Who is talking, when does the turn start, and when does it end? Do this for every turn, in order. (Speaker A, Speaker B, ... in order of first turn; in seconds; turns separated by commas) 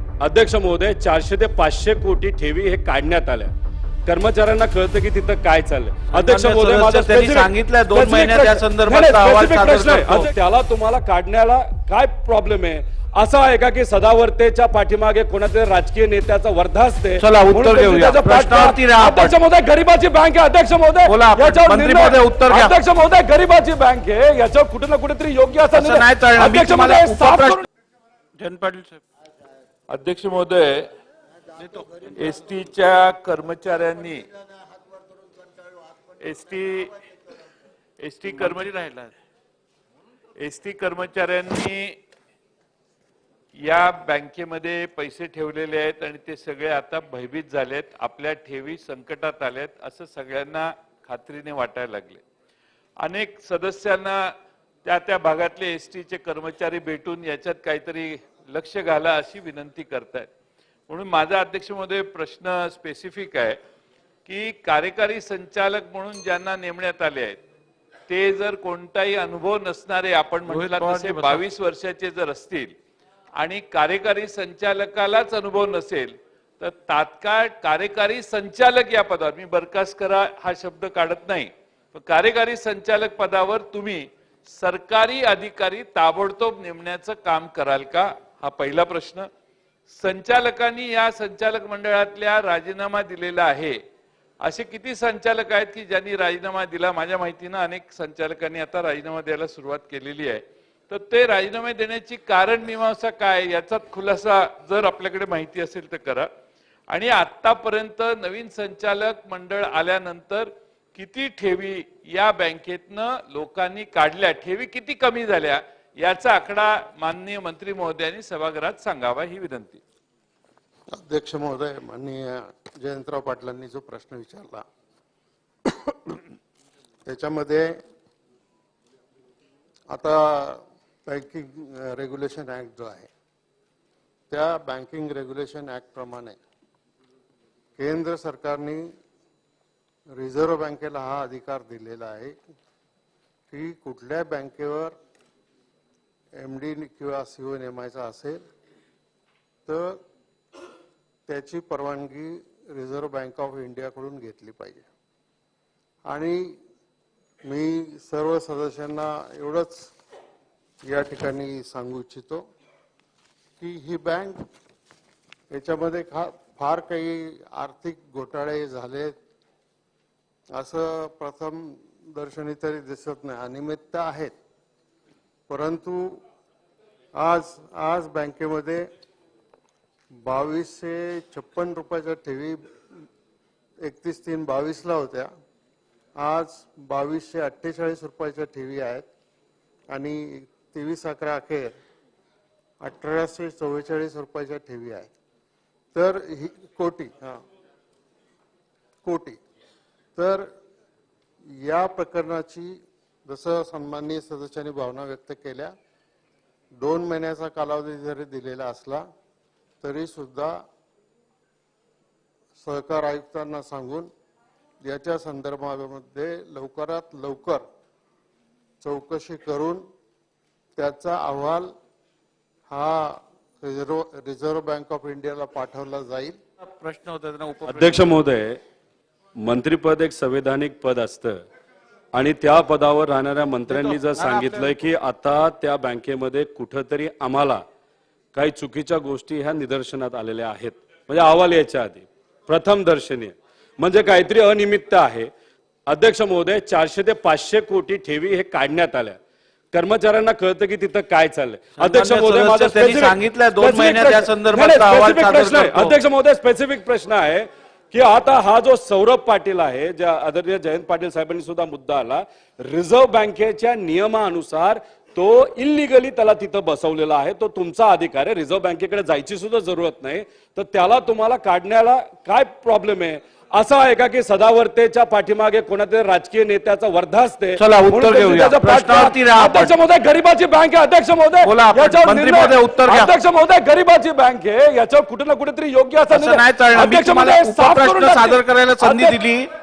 Speaker A: 0.2-3.5, Speaker A: 4.1-27.7, Speaker B: 6.1-10.3, Speaker B: 17.2-19.3, Speaker B: 21.1-22.8, Speaker B: 25.7-27.6, Speaker B: 28.4-29.0, Speaker C: 29.9-30.9, Speaker B: 31.6-32.0, Speaker C: 32.1-34.3, Speaker C: 36.2-37.1, Speaker C: 38.0-38.7, Speaker B: 38.3-39.1, Speaker C: 40.4-42.0, Speaker C: 43.6-52.2, Speaker C: 53.0-54.3, Speaker C: 54.9-60.3, Speaker C: 60.9-63.6, Speaker C: 64.3-67.4, Speaker C: 68.1-72.7, Speaker B: 70.5-71.4, Speaker C: 73.4-89.3, Speaker C: 89.9-93.8, Speaker C: 94.4-106.3, Speaker C: 106.9-119.8, Speaker D: 120.9-124.7, Speaker D: 125.9-126.2, Speaker D: 127.1-127.8, Speaker D: 129.9-133.1, Speaker D: 134.3-136.4, Speaker D: 137.8-138.9, Speaker D: 140.1-142.4, Speaker D: 143.5-145.0, Speaker D: 146.3-148.4, Speaker D: 149.7-150.0, Speaker D: 151.3-154.9, Speaker D: 156.1-156.6, Speaker D: 157.4-159.9, Speaker D: 160.8-162.4, Speaker D: 163.6-164.4, Speaker D: 165.5-169.2, Speaker D: 170.5-174.3, Speaker D: 175.5-176.2, Speaker D: 177.2-178.9, Speaker D: 180.2-182.6, Speaker D: 183.8-185.3, Speaker D: 186.2-189.1, Speaker D: 189.9-191.8, Speaker D: 192.8-195.1, Speaker D: 195.9-197.4, Speaker D: 199.0-199.4, Speaker D: 200.2-200.5, Speaker D: 201.5-205.8, Speaker D: 206.8-209.1, Speaker D: 209.8-210.6, Speaker D: 212.6-214.1, Speaker D: 214.8-217.7, Speaker D: 218.8-219.8, Speaker D: 220.8-221.7, Speaker D: 222.7-226.4, Speaker B: 226.6-228.1, Speaker A: 227.7-228.6, Speaker A: 229.4-231.4, Speaker A: 232.1-237.6, Speaker B: 233.7-234.7, Speaker A: 238.3-245.3, Speaker A: 245.9-249.2, Speaker A: 249.7-289.2, Speaker B: 251.8-256.0, Speaker B: 277.6-279.7, Speaker B: 281.4-283.1, Speaker B: 286.1-289.5